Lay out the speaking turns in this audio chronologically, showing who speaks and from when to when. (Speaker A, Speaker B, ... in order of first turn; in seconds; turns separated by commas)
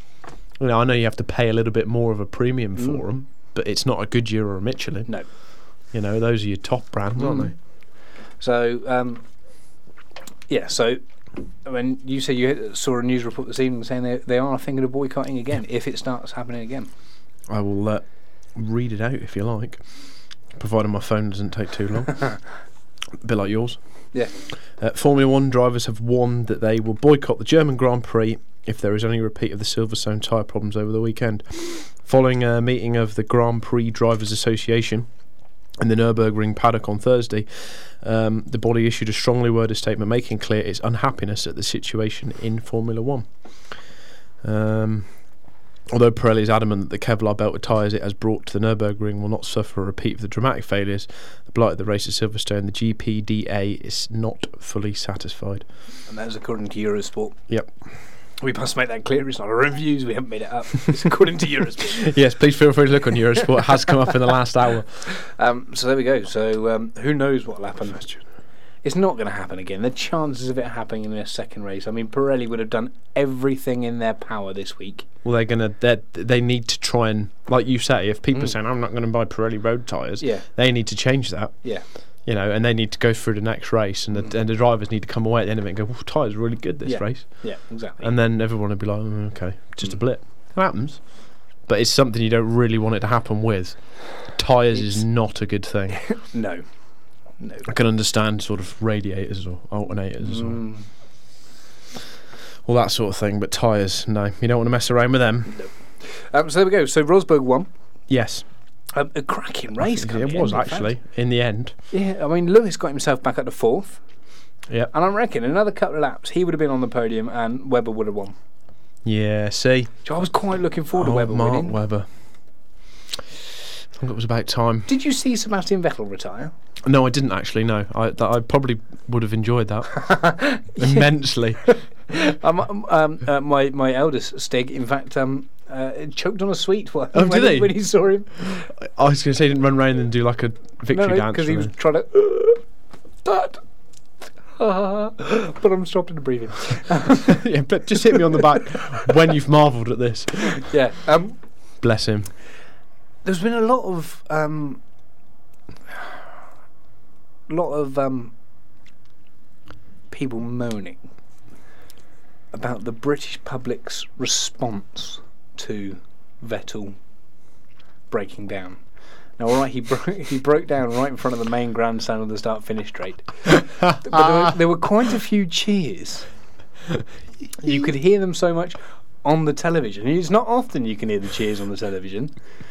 Speaker A: 0.6-5.1, Speaker A: 5.9-7.5, Speaker B: 7.2-7.5, Speaker B: 8.4-9.2, Speaker B: 10.5-11.0, Speaker B: 11.6-16.9, Speaker A: 17.5-18.0, Speaker A: 18.6-19.8, Speaker A: 20.6-22.4, Speaker A: 23.2-23.8, Speaker A: 24.8-35.1, Speaker A: 35.8-43.3, Speaker A: 44.4-45.1, Speaker A: 45.9-55.6, Speaker B: 56.1-57.4, Speaker B: 58.4-62.1, Speaker A: 61.9-65.1, Speaker B: 63.6-64.1, Speaker B: 65.1-68.2, Speaker B: 68.8-75.1, Speaker A: 75.2-81.6, Speaker B: 80.2-80.5, Speaker A: 82.3-91.0, Speaker B: 86.8-88.1, Speaker A: 91.7-96.0, Speaker B: 94.8-95.0, Speaker B: 96.1-96.7, Speaker B: 97.4-97.7, Speaker A: 97.7-100.6, Speaker B: 100.2-100.8, Speaker A: 102.7-105.6, Speaker B: 105.5-107.7, Speaker A: 108.1-108.5, Speaker B: 108.9-110.9, Speaker A: 109.8-111.8, Speaker B: 111.9-114.0, Speaker B: 114.9-118.3, Speaker A: 119.0-120.0, Speaker B: 120.0-121.8, Speaker A: 121.0-122.1, Speaker A: 124.0-124.9, Speaker B: 124.9-126.5, Speaker A: 126.8-131.7, Speaker B: 130.0-131.1, Speaker B: 132.1-138.7, Speaker A: 137.1-137.8, Speaker A: 138.8-141.7, Speaker B: 140.9-142.6, Speaker B: 143.2-143.6, Speaker B: 144.6-147.4, Speaker A: 147.3-150.7, Speaker B: 148.1-148.4, Speaker B: 150.5-151.4, Speaker A: 151.8-152.3, Speaker B: 153.2-154.8, Speaker B: 157.5-158.3, Speaker B: 160.1-161.0, Speaker B: 162.5-167.0, Speaker B: 168.1-168.8, Speaker B: 169.4-176.3, Speaker B: 177.6-182.3